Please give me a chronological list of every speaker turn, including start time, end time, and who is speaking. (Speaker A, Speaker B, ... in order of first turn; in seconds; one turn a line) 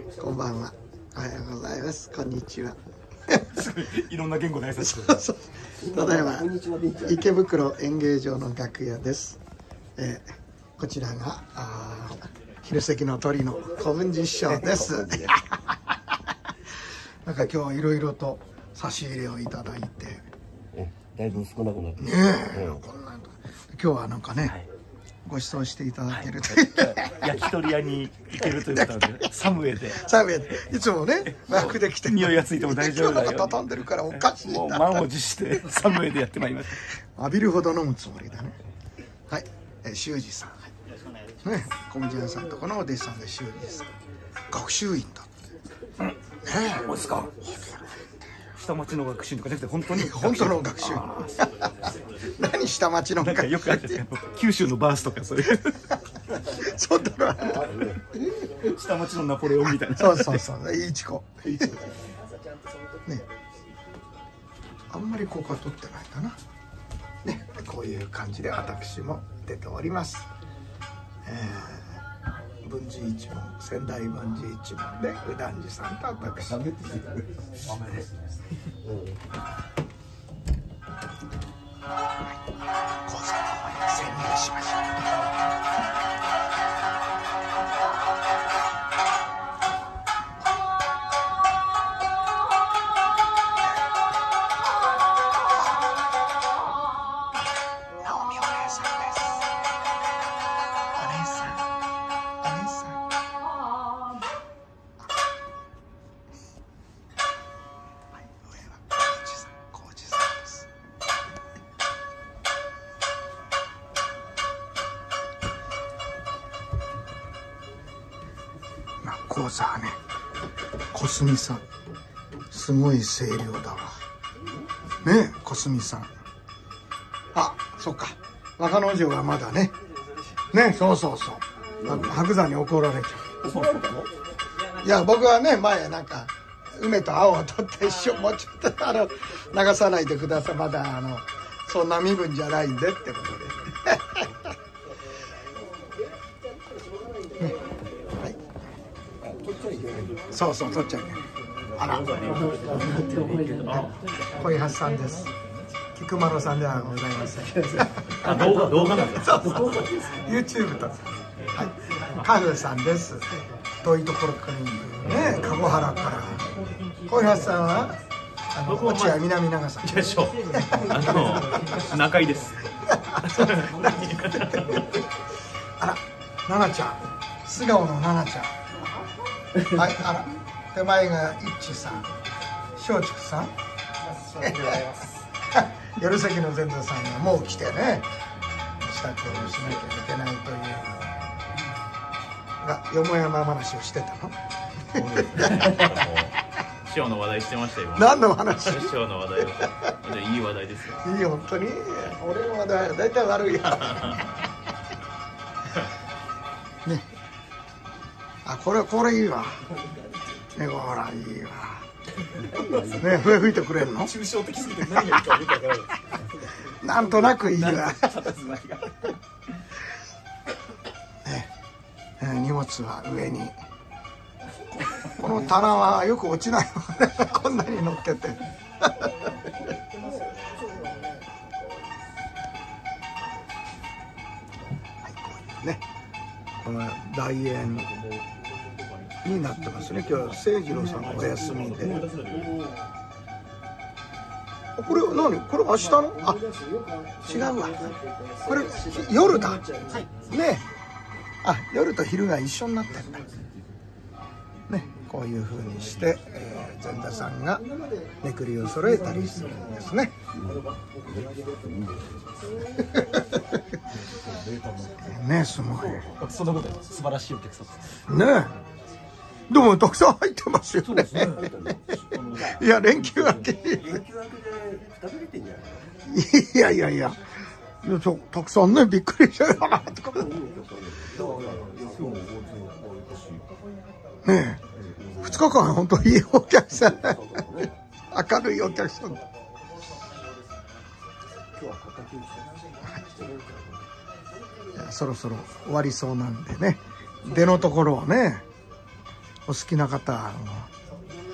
Speaker A: 0.2-3.6
Speaker B: 3.5-5.2
Speaker A: 4.8-6.5
Speaker C: 5.9-7.2
Speaker A: 7.0-9.4
Speaker A: 10.0-10.3
Speaker A: 10.8-15.8
Speaker C: 14.9-15.3
Speaker A: 17.2-20.2
Speaker C: 20.7-22.8
Speaker A: 22.0-24.6
Speaker A: 25.2-27.4
Speaker B: 26.1-30.1
Speaker A: 28.4-29.2
Speaker A: 29.9-35.1
Speaker B: 31.3-36.9
Speaker A: 37.2-38.6
Speaker A: 39.3-40.7
Speaker A: 41.4-44.0
Speaker A: 44.5-45.3
Speaker A: 46.4-46.9
Speaker B: 46.8-47.5
Speaker A: 47.5-47.9
Speaker B: 48.5-51.3
Speaker A: 49.9-54.0
Speaker B: 53.2-55.9
Speaker A: 56.3-58.2
Speaker B: 58.6-60.4
Speaker A: 59.9-61.8
Speaker A: 64.9-66.4
Speaker A: 67.2-70.3
Speaker A: 71.2-72.0
Speaker A: 72.6-76.7
Speaker B: 76.6-77.1
Speaker B: 77.6-78.2
Speaker A: 83.0-85.3
Speaker A: 98.0-99.5
Speaker A: 100.9-101.7
Speaker A: 102.4-103.0
Speaker A: 108.2-110.7
Speaker A: 119.0-120.0
Speaker A: 120.9-121.6
Speaker A: 122.5-124.0
Speaker A: 125.0-126.1
Speaker A: 127.3-129.7
Speaker A: 130.5-133.3
Speaker C: 133.5-134.1
Speaker B: 133.5-133.8
Speaker A: 134.8-144.4
Speaker C: 149.4-150.2
Speaker A: 150.3-151.2
Speaker A: 151.8-152.4
Speaker B: 152.2-152.8
Speaker C: 152.5-153.4
Speaker D: 152.6-153.9
Speaker A: 153.6-155.3
Speaker A: 155.9-166.5
Speaker B: 158.4-158.9
Speaker D: 158.5-159.4
Speaker A: 167.0-168.0
Speaker A: 168.5-171.7
Speaker D: 168.7-169.2
Speaker B: 169.8-172.6
Speaker D: 171.2-171.5
Speaker A: 172.9-175.0
Speaker B: 173.2-174.8
Speaker A: 175.8-178.5
Speaker A: 179.7-182.1
Speaker A: 182.8-183.5
Speaker B: 184.1-185.2
Speaker A: 184.4-184.8
Speaker A: 185.5-188.1
Speaker A: 188.8-191.1
Speaker A: 192.6-194.3
Speaker A: 194.9-195.7
Speaker B: 194.9-196.1
Speaker D: 195.7-196.3
Speaker D: 196.8-198.1
Speaker A: 197.9-199.0
Speaker D: 198.7-201.0
Speaker A: 201.0-204.3
Speaker A: 208.4-209.6
Speaker B: 209.7-210.4
Speaker A: 210.5-211.8
Speaker B: 212.4-212.9
Speaker C: 212.5-213.0
Speaker A: 212.8-214.1
Speaker B: 213.8-216.3
Speaker A: 216.7-218.2
Speaker B: 217.1-219.2
Speaker A: 221.2-221.5
Speaker A: 222.2-223.6
Speaker B: 224.9-225.5
Speaker A: 225.1-229.2
Speaker A: 235.0-235.8
Speaker A: 236.6-237.9
Speaker A: 239.2-242.1
Speaker B: 239.7-240.2
Speaker B: 240.9-242.6
Speaker A: 244.8-246.4
Speaker C: 246.7-247.2
Speaker A: 247.2-249.6
Speaker C: 249.7-250.1
Speaker A: 250.2-250.7
Speaker A: 251.4-253.3
Speaker A: 254.7-257.7
Speaker A: 258.2-260.1
Speaker C: 260.4-262.5
Speaker A: 262.9-263.6
Speaker B: 264.1-265.0
Speaker A: 265.0-266.1
Speaker B: 265.8-268.0
Speaker A: 268.1-268.5
Speaker A: 269.5-271.4
Speaker B: 270.8-275.1
Speaker C: 271.1-272.0
Speaker A: 272.3-274.0
Speaker C: 274.6-275.9
Speaker A: 276.1-277.2
Speaker A: 277.8-280.3
Speaker C: 279.9-282.4
Speaker B: 281.1-283.4
Speaker A: 284.2-284.6
Speaker A: 285.2-287.4
Speaker C: 287.0-287.7
Speaker A: 288.1-289.2
Speaker C: 291.6-293.8
Speaker A: 294.7-298.4
Speaker A: 299.5-300.7